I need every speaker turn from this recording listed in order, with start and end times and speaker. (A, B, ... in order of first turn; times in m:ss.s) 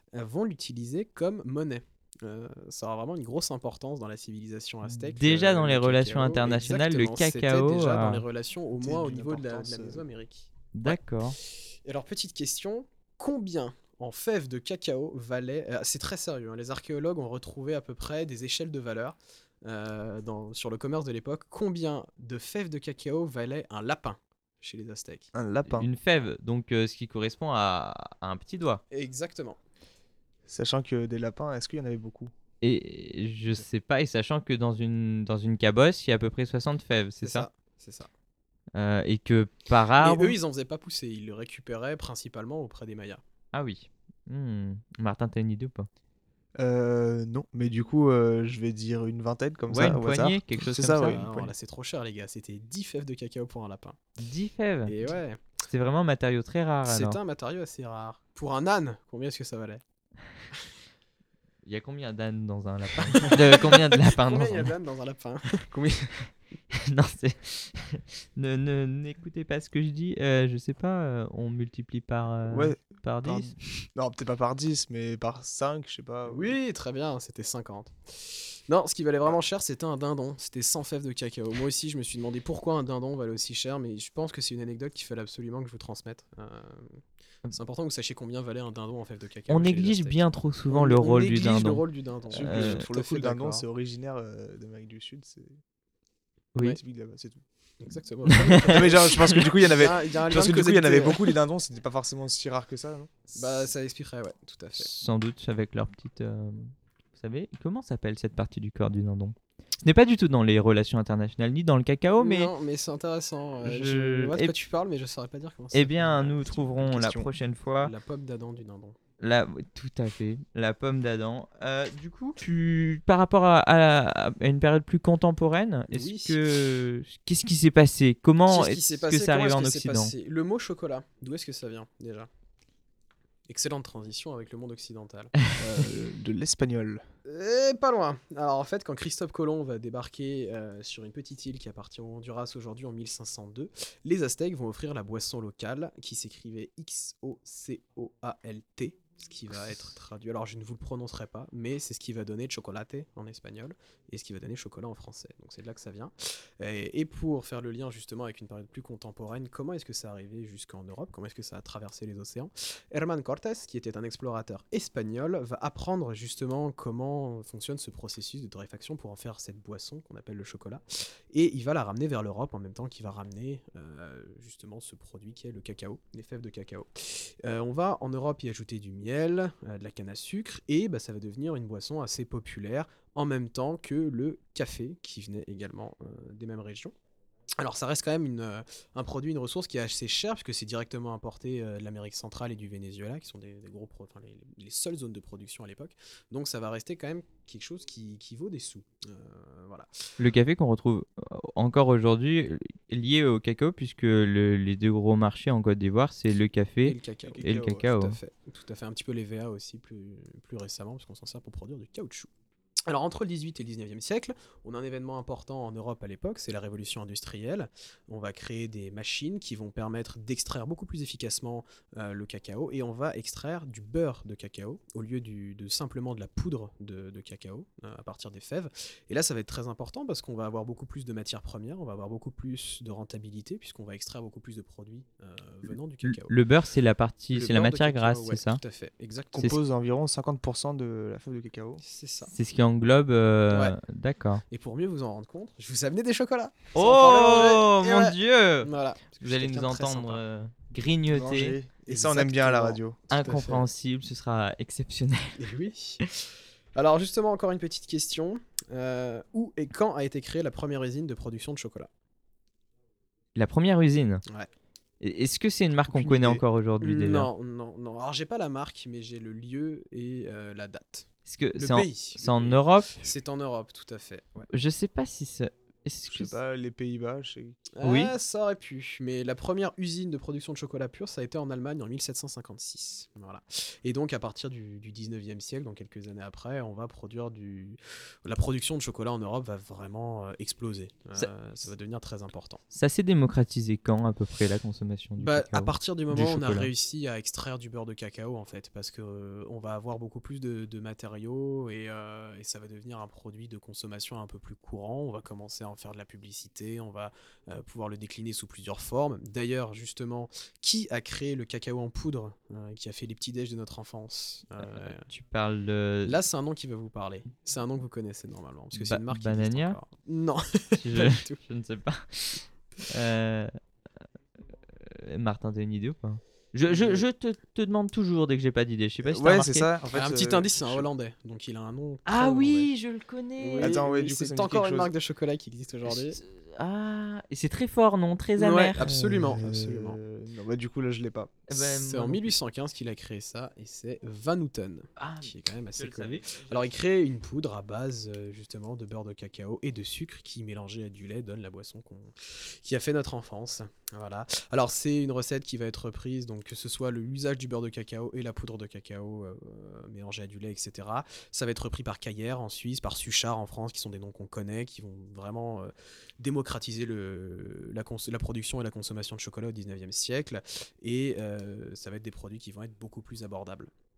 0:00.1-0:25.3 A
0:04.8-0:08.2 B
0:08.8-0:10.0 C
0:10.7-0:11.4 B
0:25.3-0:25.9 C
0:25.7-0:28.8 B
0:28.9-0:29.6 A
0:30.5-0:32.3 C
0:32.6-0:37.4 B
0:37.2-0:38.1 A
0:38.8-0:40.4 B
0:40.0-0:43.2 A
0:43.5-0:45.9 B
0:46.6-0:51.5 C
0:49.7-0:51.2 B
0:51.0-0:54.0 A
0:54.2-0:55.1 B
0:54.8-0:55.4 A
0:55.6-0:57.2 B
0:56.8-0:59.8 A
1:01.6-1:04.7 B
1:03.0-1:05.7 A
1:05.7-1:06.1 C
1:06.7-1:13.6 B
1:12.4-1:16.6 C
1:16.2-1:33.6 A
1:29.5-1:32.8 B
1:31.1-1:31.7 C
1:32.3-1:35.6 C
1:36.6-1:37.4 C
1:37.8-1:41.3 A
1:38.4-1:39.5 B
1:38.7-1:43.2 C
1:43.3-1:44.9 A
1:44.8-1:52.5 B
1:52.2-1:56.8 A
1:53.6-1:54.5 B
1:55.7-1:57.9 B
1:56.7-1:57.3 C
1:57.8-1:59.0 A
1:59.2-2:10.1 B
2:05.9-2:06.4 A
2:08.5-2:12.3 A
2:13.5-2:15.3 A
2:15.6-2:17.0 C
2:17.2-3:06.9 A
3:07.6-3:20.0 A
3:20.2-3:28.2 B
3:26.8-3:32.3 A
3:27.2-3:27.9 C
3:32.9-3:56.3 A
3:56.0-3:58.6 B
3:57.3-3:59.6 A
3:59.3-4:01.8 C
4:01.8-4:02.3 A
4:02.3-4:04.4 B
4:03.5-4:03.8 A
4:04.5-4:10.2 A
4:06.7-4:11.6 B
4:11.1-4:13.0 C
4:11.8-4:13.7 A
4:13.1-4:15.4 B
4:15.4-4:16.1 A
4:16.7-4:21.9 A
4:23.4-4:24.2 B
4:25.0-4:27.3 B
4:25.8-4:26.4 C
4:26.8-4:34.5 A
4:31.2-4:33.1 B
4:34.5-4:36.3 B
4:36.1-4:37.6 C
4:37.7-4:52.6 A
4:37.8-4:38.1 B
4:52.7-4:56.7 B
4:55.2-5:15.1 A
5:14.6-5:16.2 B
5:16.0-5:21.4 A
5:18.7-5:19.8 B
5:20.8-5:23.5 B
5:24.8-5:29.7 B
5:26.7-5:27.0 A
5:29.0-5:30.9 C
5:29.9-5:32.7 A
5:32.1-5:33.7 B
5:33.4-5:36.2 A
5:33.6-5:34.9 C
5:35.9-5:39.2 B
5:38.4-5:40.0 A
5:39.1-5:41.4 C
5:41.5-5:42.3 B
5:41.5-6:13.7 A
5:45.0-5:46.7 B